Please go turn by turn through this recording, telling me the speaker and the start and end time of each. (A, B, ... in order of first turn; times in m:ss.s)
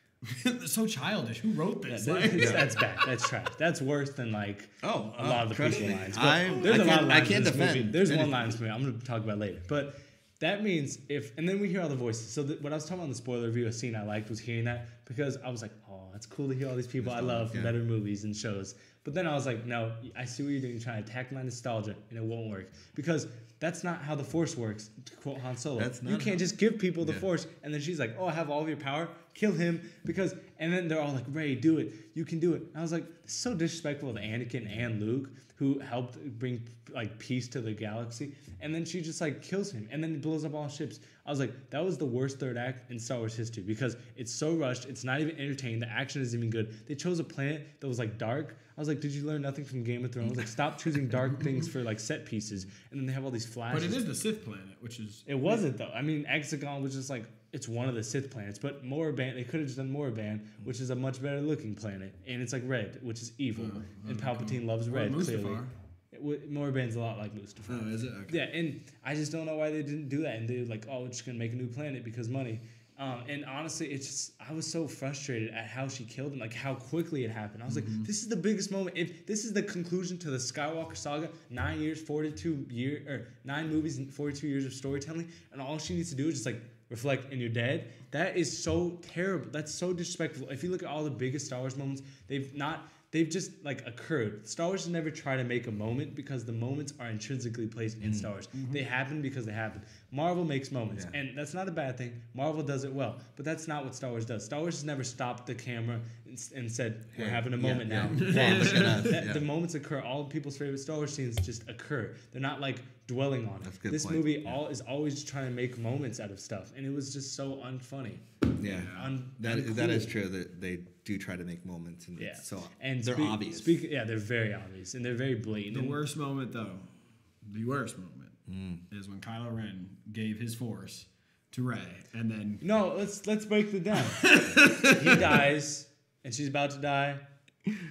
0:00.2-0:03.3 A
0:01.9-0:54.0 B
0:02.4-0:02.7 C
0:04.8-0:08.5 C
0:06.2-0:07.0 A
0:17.0-0:17.8 C
0:25.8-0:26.4 C
0:53.7-0:55.6 A
0:55.3-2:00.1 B
1:03.6-1:05.7 A
1:07.7-1:08.4 A
1:17.7-1:18.1 A
1:38.0-1:38.3 C
1:38.5-1:38.8 A
1:47.1-1:49.4 C
1:48.1-1:49.2 A
1:53.6-1:54.6 C
1:58.6-2:03.8 C
1:58.7-1:59.1 A
2:02.2-2:06.0 B
2:05.7-2:06.9 A
2:07.4-2:08.4 A
2:08.5-2:08.8 C
2:08.9-2:12.6 A
2:12.6-2:17.2 B
2:14.1-2:15.3 A